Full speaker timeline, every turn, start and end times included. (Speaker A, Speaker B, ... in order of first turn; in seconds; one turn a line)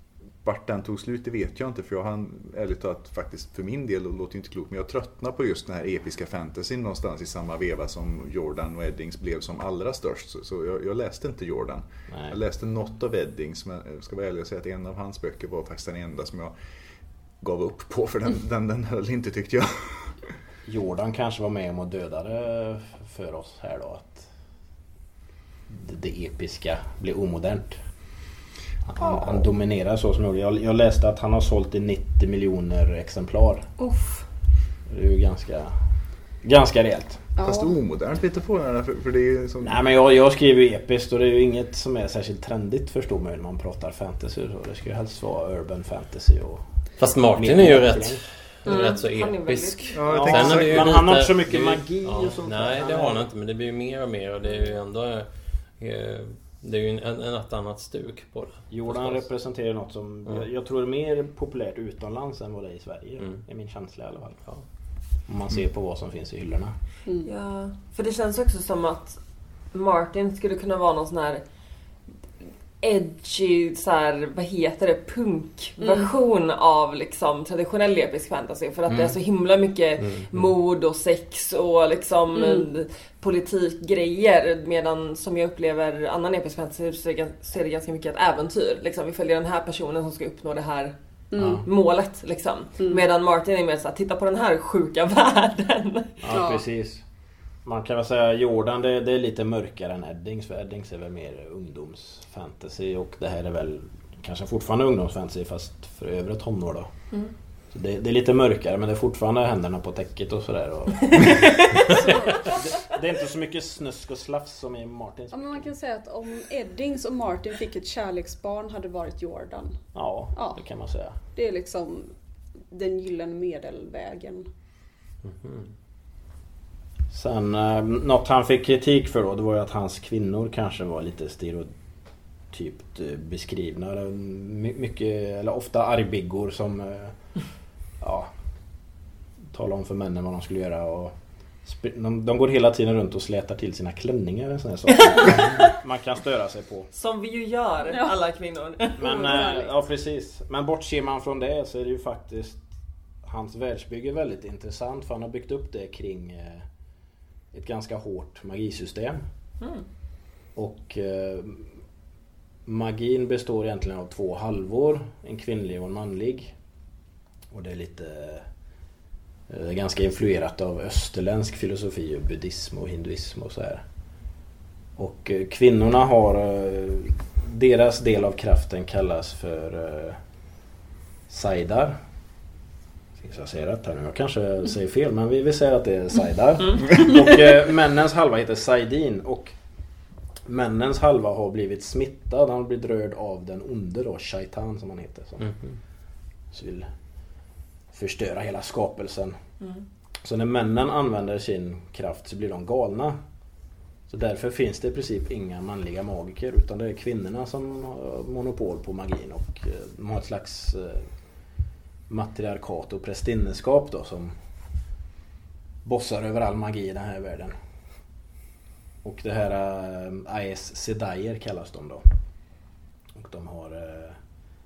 Speaker A: 0.4-16.5
Speaker B: 12.1-12.4
Speaker A: 17.4-20.3
Speaker B: 20.6-24.3
Speaker B: 25.7-27.8
Speaker B: 28.9-33.7
Speaker C: 29.0-29.3
Speaker C: 33.8-34.2
Speaker B: 34.9-35.8
Speaker B: 36.4-37.3
Speaker C: 37.4-37.8
Speaker A: 37.4-39.8
Speaker B: 39.6-46.6
Speaker D: 47.0-55.3
Speaker B: 47.4-48.2
Speaker E: 48.7-50.0
Speaker A: 49.9-51.0
Speaker B: 50.0-53.3
Speaker D: 55.8-59.2
Speaker B: 58.7-64.4
Speaker B: 65.3-66.8
Speaker E: 67.2-69.2
Speaker E: 69.7-71.4
Speaker E: 72.8-91.0
Speaker C: 75.8-76.1
Speaker B: 78.9-79.1
Speaker C: 82.4-82.7
Speaker C: 91.3-91.7
Speaker B: 91.4-91.6
Speaker E: 91.6-96.2
Speaker B: 96.2-97.0
Speaker C: 96.3-96.6
Speaker B: 97.6-106.9
Speaker B: 107.7-111.6
Speaker E: 111.1-112.0
Speaker C: 112.0-112.3
Speaker B: 112.5-115.7
Speaker C: 115.3-119.8
Speaker B: 119.9-121.2
Speaker C: 121.3-122.1
Speaker C: 122.7-124.5
Speaker D: 125.2-125.7
Speaker B: 127.1-131.7
Speaker B: 132.5-137.2
Speaker B: 138.0-138.3
Speaker B: 139.5-141.1
Speaker B: 141.6-146.9
Speaker E: 144.9-145.7
Speaker E: 146.9-149.7
Speaker B: 149.0-152.7
Speaker B: 153.2-156.7
Speaker B: 157.5-159.2
Speaker B: 160.6-161.7
Speaker B: 162.7-166.6
Speaker B: 167.5-168.5
Speaker B: 169.5-173.8
Speaker B: 175.0-180.2
Speaker B: 181.3-182.0
Speaker B: 183.2-189.6
Speaker B: 190.5-195.5
Speaker B: 196.5-196.9
Speaker B: 197.9-199.4
Speaker B: 200.2-203.2
Speaker B: 204.1-211.1
Speaker B: 212.1-214.3
Speaker B: 215.8-217.5
Speaker B: 219.0-222.0
Speaker B: 223.2-224.2